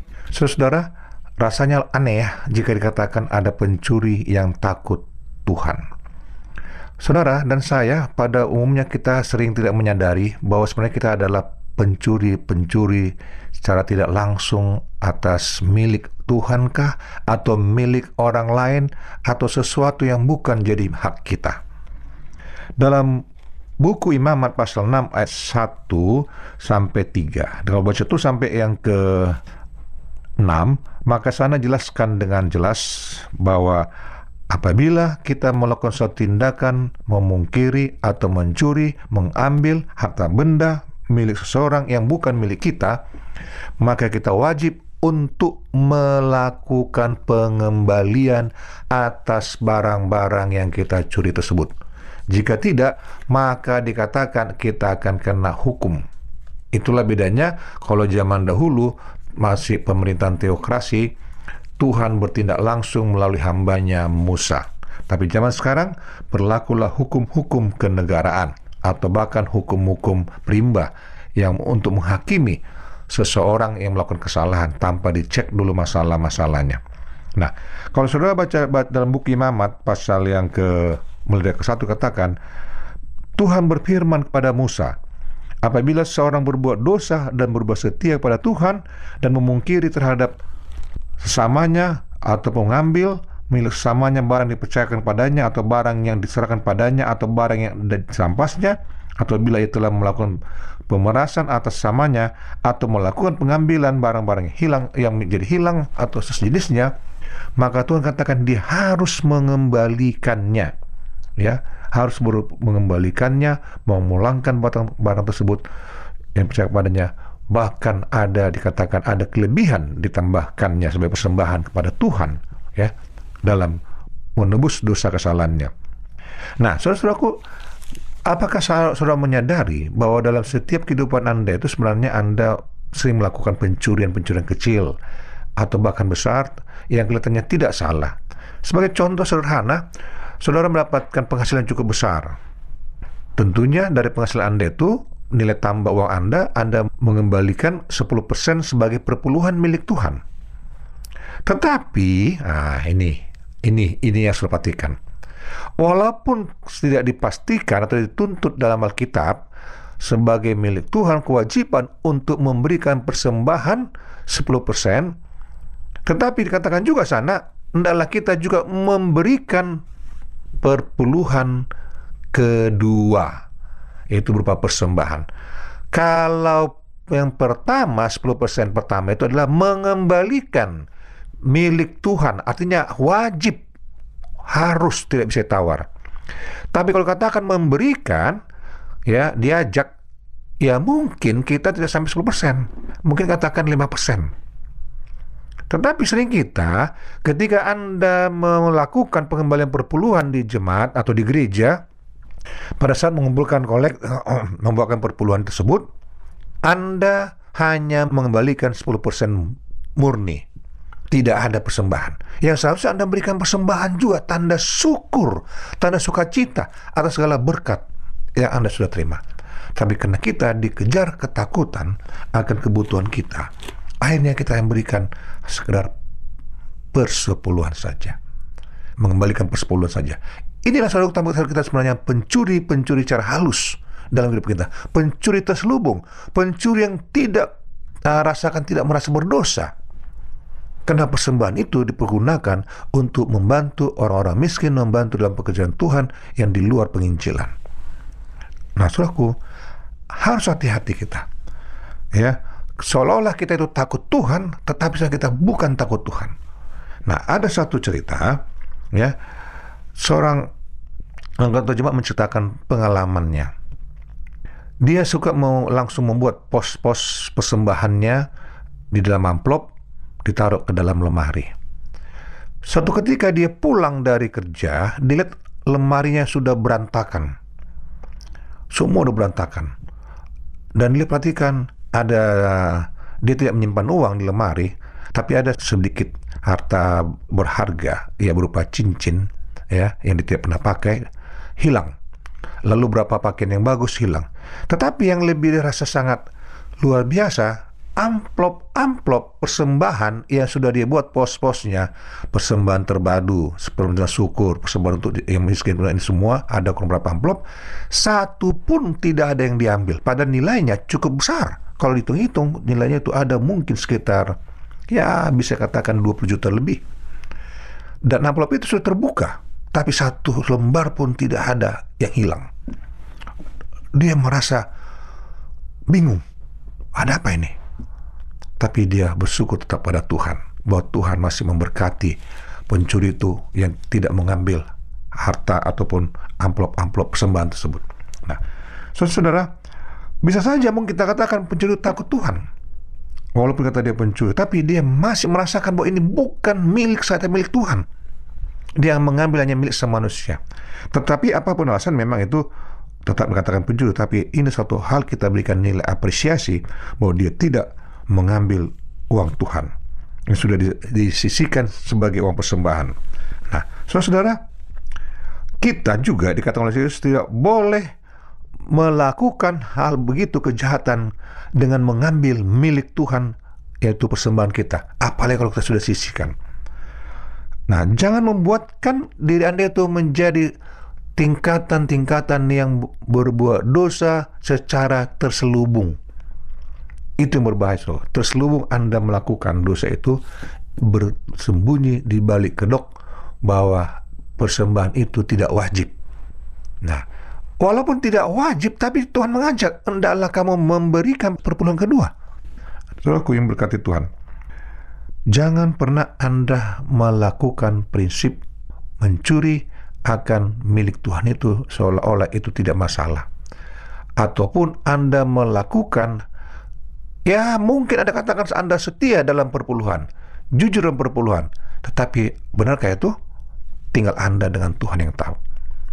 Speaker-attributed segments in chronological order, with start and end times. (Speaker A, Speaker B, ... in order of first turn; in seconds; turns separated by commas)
Speaker A: 0.3-5.8, Speaker A: 7.0-21.6, Speaker A: 22.8-23.2, Speaker A: 23.8-29.4, Speaker A: 30.4-33.9, Speaker A: 34.5-43.0, Speaker A: 43.8-51.7, Speaker A: 52.3-56.0, Speaker A: 56.7-61.1, Speaker A: 61.8-76.8, Speaker A: 77.4-82.4, Speaker A: 83.4-85.0, Speaker A: 85.6-90.3, Speaker A: 91.2-106.9, Speaker A: 107.6-110.7, Speaker A: 111.4-115.6, Speaker A: 116.3-122.9, Speaker A: 123.4-123.8, Speaker A: 124.4-125.7, Speaker A: 126.6-127.4, Speaker A: 128.3-135.0, Speaker A: 135.6-139.9, Speaker A: 140.4-142.4, Speaker A: 143.3-150.2, Speaker A: 151.4-155.0, Speaker A: 155.8-159.4, Speaker A: 160.0-165.1, Speaker A: 166.1-169.8, Speaker A: 170.6-171.7, Speaker A: 172.3-173.4, Speaker A: 174.1-175.3, Speaker A: 175.9-180.8, Speaker A: 181.4-183.6, Speaker A: 184.4-185.9, Speaker A: 186.7-188.4, Speaker A: 189.1-189.9, Speaker A: 190.6-194.3, Speaker A: 195.7-201.8, Speaker A: 202.8-205.9, Speaker A: 206.6-210.4, Speaker A: 211.1-217.8, Speaker A: 218.4-219.2, Speaker A: 219.7-223.5, Speaker A: 224.0-225.9, Speaker A: 226.9-228.2, Speaker A: 229.0-237.5, Speaker A: 238.0-239.7, Speaker A: 240.9-247.5, Speaker A: 248.8-249.3, Speaker A: 250.1-251.2, Speaker A: 252.1-256.3, Speaker A: 257.1-258.4, Speaker A: 260.0-260.5, Speaker A: 261.4-263.5, Speaker A: 264.8-268.3, Speaker A: 268.9-269.7, Speaker A: 270.2-271.5, Speaker A: 272.7-277.3, Speaker A: 278.7-279.7, Speaker A: 280.8-291.1, Speaker A: 291.6-291.9, Speaker A: 292.6-296.2, Speaker A: 296.8-314.4, Speaker A: 314.9-316.8, Speaker A: 318.1-322.5, Speaker A: 323.9-324.7, Speaker A: 325.9-326.2, Speaker A: 326.9-327.6, Speaker A: 328.6-332.2, Speaker A: 332.7-338.4, Speaker A: 338.9-339.5, Speaker A: 340.2-342.4, Speaker A: 343.4-347.9, Speaker A: 348.8-350.4, Speaker A: 350.9-352.4, Speaker A: 353.0-359.7, Speaker A: 360.3-362.9, Speaker A: 363.5-364.4, Speaker A: 365.6-367.9, Speaker A: 368.7-376.3, Speaker A: 377.7-380.5, Speaker A: 381.2-386.0, Speaker A: 387.2-390.2, Speaker A: 390.8-392.9, Speaker A: 393.4-395.9, Speaker A: 397.6-402.1, Speaker A: 403.0-404.1, Speaker A: 405.3-408.4, Speaker A: 409.0-413.3, Speaker A: 414.2-416.2, Speaker A: 417.3-423.1, Speaker A: 423.9-425.4